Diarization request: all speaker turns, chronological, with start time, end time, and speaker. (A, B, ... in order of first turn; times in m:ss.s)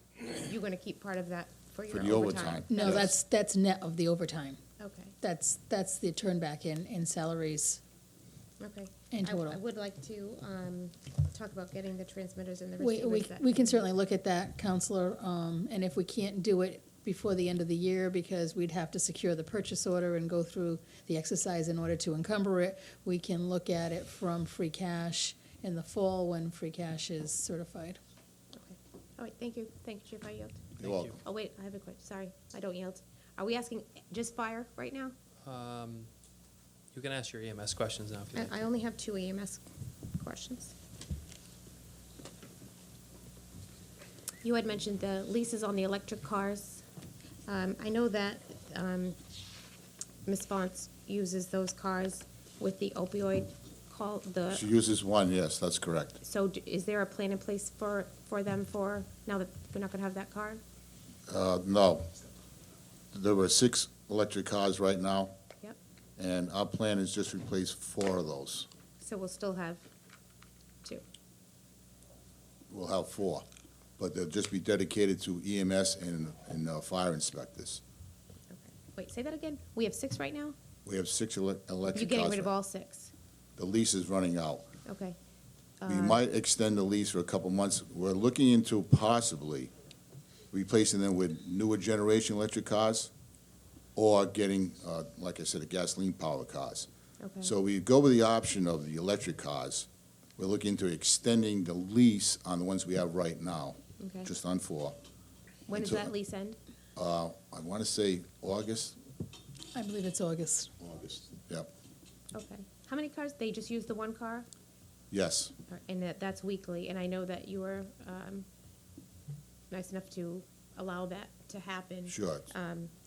0:00.3-0:03.2 A
0:01.9-0:03.1 B
0:02.7-0:04.6 C
0:04.8-0:05.1 A
0:05.2-0:07.8 C
0:08.6-0:13.8 A
0:09.1-0:09.6 C
0:12.8-0:28.0 C
0:28.5-0:35.1 A
0:30.8-0:31.2 B
0:30.8-0:31.1 D
0:35.4-0:36.1 D
0:36.9-0:38.5 D
0:38.3-0:40.7 A
0:44.4-0:46.8 A
0:47.5-0:49.2 A
0:50.2-0:54.6 A
0:54.5-0:56.2 B
0:56.2-1:00.6 A
1:01.3-1:02.1 B
1:03.1-1:05.3 B
1:06.2-1:08.7 B
1:09.0-1:09.9 A
1:12.7-1:13.4 B
1:14.0-1:17.8 B
1:18.5-1:20.6 A
1:20.8-1:22.5 B
1:21.9-1:23.1 A
1:23.6-1:24.7 B
1:24.8-1:25.2 A
1:25.8-1:26.2 A
1:25.8-1:29.7 B
1:30.5-1:33.1 B
1:34.0-1:36.9 B
1:37.2-1:37.5 A
1:37.4-1:45.0 B
1:44.0-1:44.3 A
1:45.7-1:46.6 A
1:45.7-1:46.1 B
1:47.0-1:49.0 B
1:49.7-1:50.7 C
1:50.8-1:51.7 B
1:52.3-1:54.5 A
1:55.1-1:55.5 B
1:55.7-1:58.5 A
1:59.7-2:02.9 A
2:02.1-2:02.5 B